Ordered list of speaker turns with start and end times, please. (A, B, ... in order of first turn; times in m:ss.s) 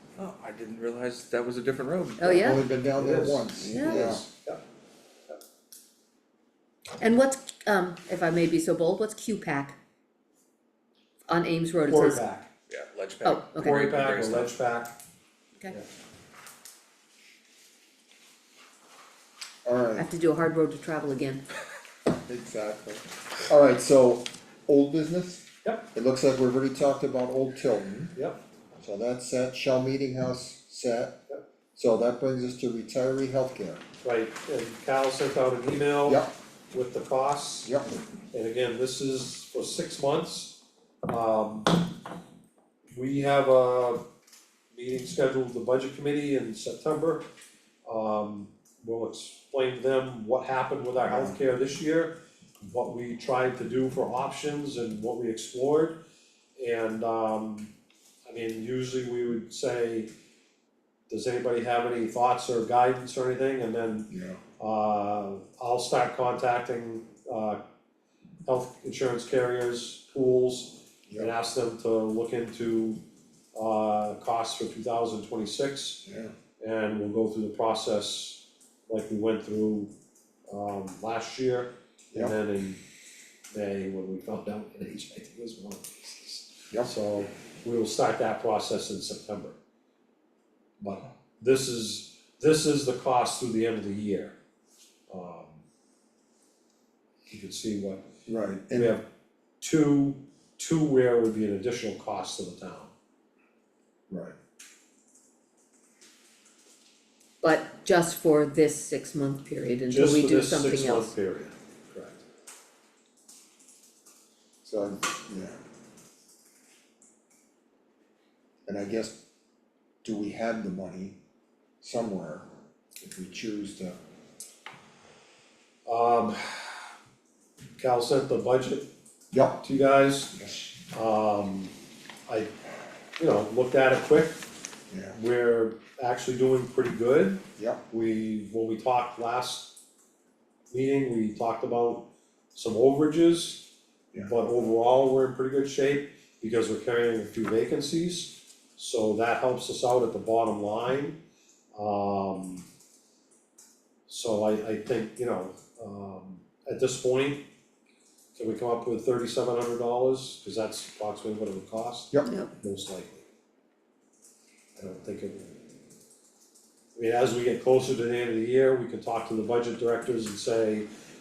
0:00.2-0:02.4 A
0:02.2-0:02.6 B
0:02.3-0:04.2 C
0:03.0-0:04.6 D
0:03.5-0:04.1 B
0:07.0-0:09.8 B
0:11.3-0:12.2 B
0:11.8-0:12.5 D
0:12.7-0:14.6 A
0:13.2-0:13.8 B
0:13.6-0:14.9 D
0:19.6-0:20.1 C
0:20.0-0:21.4 B
0:22.1-0:28.1 C
0:28.8-0:31.2 C
0:31.7-0:33.8 C
0:34.0-0:37.7 D
0:36.0-0:36.3 C
0:37.6-0:37.9 C
0:38.3-0:41.9 D
0:42.9-0:44.0 D
0:44.7-0:47.2 D
0:47.8-0:56.0 D
0:51.0-0:51.4 C
0:56.6-0:57.7 D
0:58.3-1:00.1 D
1:01.1-1:07.6 D
1:04.1-1:04.4 C
1:08.4-1:13.0 D
1:13.5-1:16.0 D
1:16.0-1:16.3 C
1:16.6-1:19.9 D
1:20.5-1:22.8 D
1:23.5-1:29.6 D
1:30.8-1:34.3 D
1:35.1-1:35.6 D
1:37.3-1:38.0 D
1:38.3-1:39.0 C
1:38.7-1:39.0 D
1:39.6-1:42.9 D
1:44.1-1:44.3 C
1:47.4-1:51.1 B
1:49.9-1:52.2 D
1:54.6-1:55.6 C
1:58.6-1:59.2 C
2:00.0-2:01.2 C
2:01.8-2:02.5 C
2:03.0-2:04.0 C
2:05.8-2:06.9 D
2:07.8-2:08.9 D
2:09.3-2:09.6 C
2:09.6-2:11.7 D
2:13.2-2:14.4 D
2:14.9-2:15.2 C
2:15.1-2:19.8 D
2:20.7-2:31.2 D
2:31.7-2:32.6 D
2:34.1-2:37.4 D
2:38.3-2:43.2 D
2:42.2-2:42.5 B
2:44.8-2:45.7 D
2:46.9-2:50.9 D